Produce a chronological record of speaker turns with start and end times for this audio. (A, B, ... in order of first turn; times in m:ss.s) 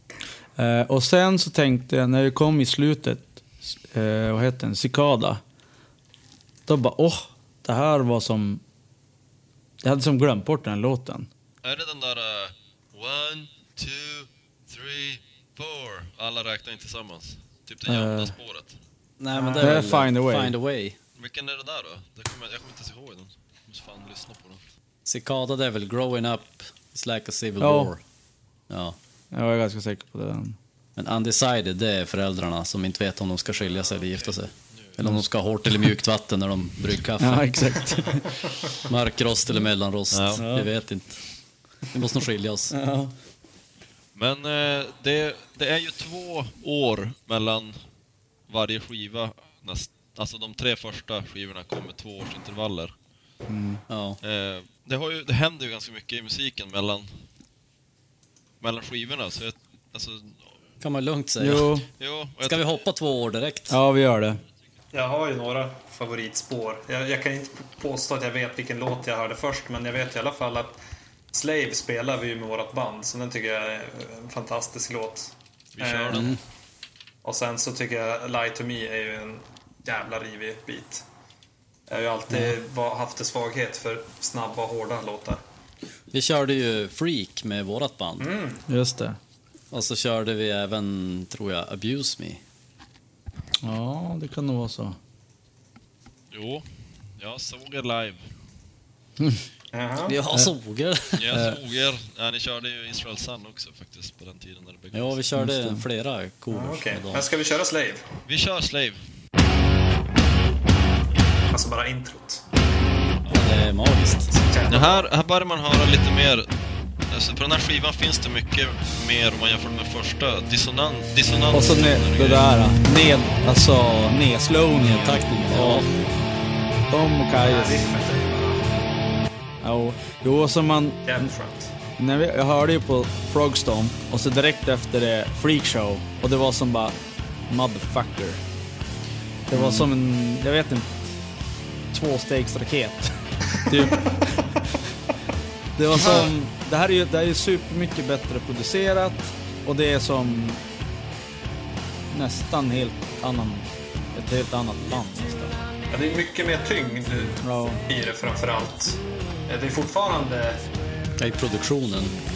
0:00.6-0:05.4 A
0:06.7-0:08.6 A
0:09.8-0:11.3 A
0:11.6-0:18.8 B
0:17.8-0:18.3 A
0:19.2-0:21.0 C
0:19.3-0:19.8 D
0:19.6-0:20.5 A
0:21.2-0:24.6 B
0:25.0-0:28.0 C
0:27.6-0:27.9 A
0:28.7-0:29.0 C
0:29.3-0:30.6 A
0:31.0-0:37.9 C
0:33.7-0:34.3 B
0:37.2-0:38.3 A
0:38.8-0:41.2 C
0:40.1-0:40.4 B
0:40.4-0:40.7 A
0:41.9-0:42.8 C
0:42.7-0:43.1 A
0:44.2-0:47.8 B
0:48.5-0:52.9 B
0:53.5-0:53.8 A
0:53.9-0:54.2 C
0:54.2-0:57.1 B
0:58.6-1:00.5 B
1:00.8-1:01.7 C
1:01.4-1:01.9 A
1:02.0-1:02.7 B
1:02.4-1:03.8 C
1:03.7-1:04.4 A
1:04.9-1:10.8 D
1:11.3-1:16.3 D
1:15.7-1:16.4 B
1:16.1-1:16.4 C
1:17.2-1:21.0 D
1:21.9-1:25.4 D
1:22.3-1:22.6 C
1:26.1-1:28.3 C
1:28.2-1:28.6 D
1:28.7-1:29.2 A
1:29.7-1:32.4 C
1:33.6-1:35.0 A
1:36.3-1:36.6 B
1:37.2-1:38.3 B
1:39.2-1:39.4 A
1:39.7-1:40.2 D
1:40.0-1:41.2 C
1:41.2-1:45.2 B
1:41.3-1:41.6 A
1:44.9-1:47.2 C
1:45.4-1:45.8 A
1:46.5-1:48.0 D
1:48.2-1:49.0 B
1:51.5-1:52.4 D
1:53.3-1:54.3 C
1:54.3-1:55.0 D
1:54.7-1:56.5 B
1:57.1-2:02.5 B
2:01.5-2:05.9 A
2:04.8-2:06.0 C
2:06.9-2:07.9 A
2:07.4-2:08.7 D
2:09.6-2:11.3 A
2:11.0-2:11.7 D
2:12.0-2:17.0 A
2:17.5-2:18.4 A
2:19.5-2:21.0 A
2:21.9-2:24.6 A
2:25.8-2:30.6 A
2:32.1-2:35.6 A
2:35.9-2:40.6 D
2:37.4-2:37.8 A
2:41.2-2:42.2 C